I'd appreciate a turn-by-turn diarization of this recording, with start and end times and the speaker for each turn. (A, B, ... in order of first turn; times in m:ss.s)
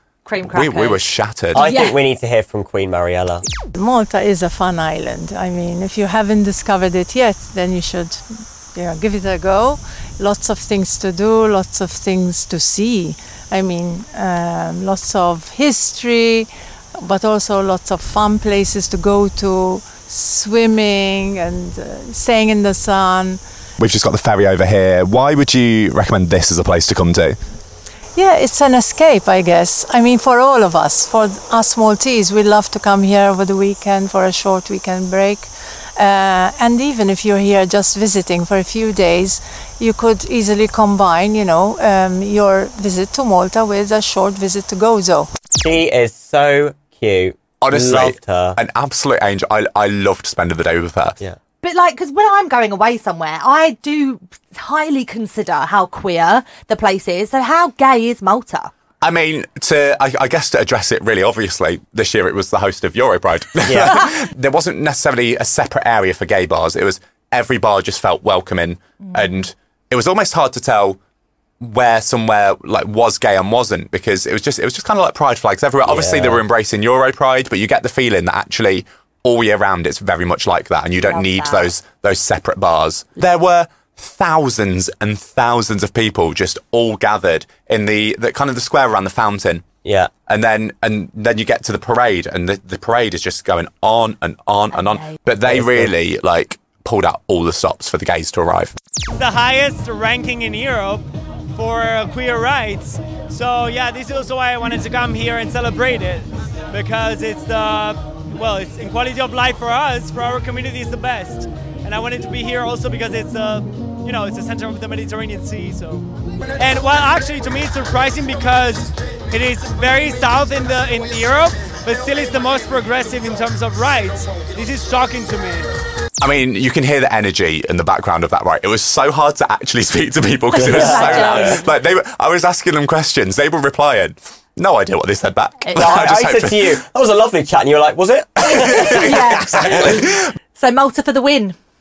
0:00.2-0:02.0 A
0:00.5-0:01.6 B
0:01.5-0:03.4 C
0:03.7-0:23.4 D
0:23.8-0:27.4 B
0:28.1-0:45.3 D
0:45.6-0:48.6 C
0:47.6-0:51.2 B
0:51.6-0:58.7 A
0:59.0-1:11.0 B
1:03.6-1:04.1 C
1:11.6-1:29.6 B
1:15.8-1:16.4 C
1:21.0-1:21.7 A
1:29.8-1:30.1 C
1:30.3-1:38.7 B
1:34.7-1:35.2 A
1:35.4-1:35.9 C
1:39.1-1:56.1 E
1:56.6-2:05.7 E
2:06.2-2:16.8 B
2:10.6-2:11.6 C
2:10.6-2:11.7 A
2:15.7-2:19.8 C
2:18.5-2:20.2 B
2:18.5-2:21.6 A